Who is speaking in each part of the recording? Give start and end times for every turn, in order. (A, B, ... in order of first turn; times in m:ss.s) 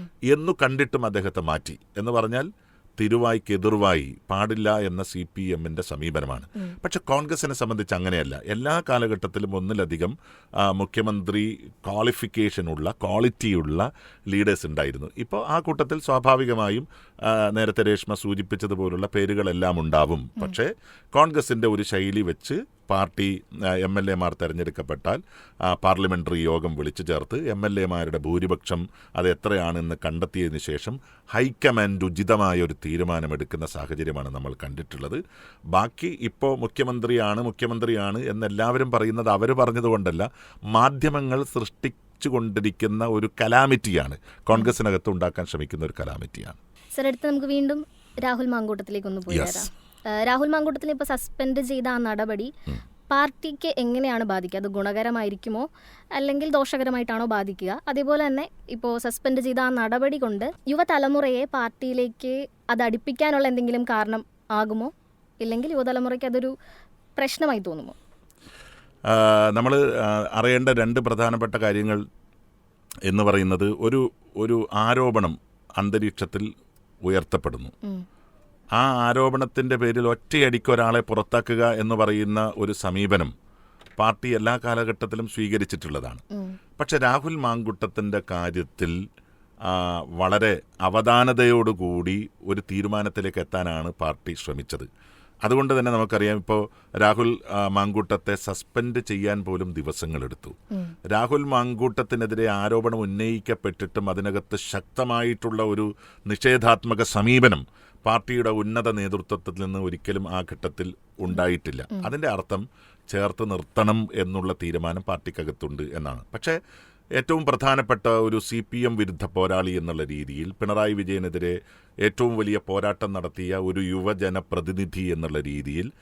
0:00.3-0:46.6 A
0:46.9-0:52.5 B
0:49.3-0:49.7 A
0:53.1-1:06.5 B
1:07.2-1:08.0 B
1:09.1-1:12.0 A
1:13.1-1:16.5 A
1:17.0-1:17.7 A
1:18.8-1:23.3 A
1:24.0-1:26.2 A
1:26.3-1:26.6 B
1:26.8-1:29.0 A
1:29.6-1:34.9 A
1:35.4-1:40.6 A
1:41.1-1:56.6 A
1:57.2-2:05.9 A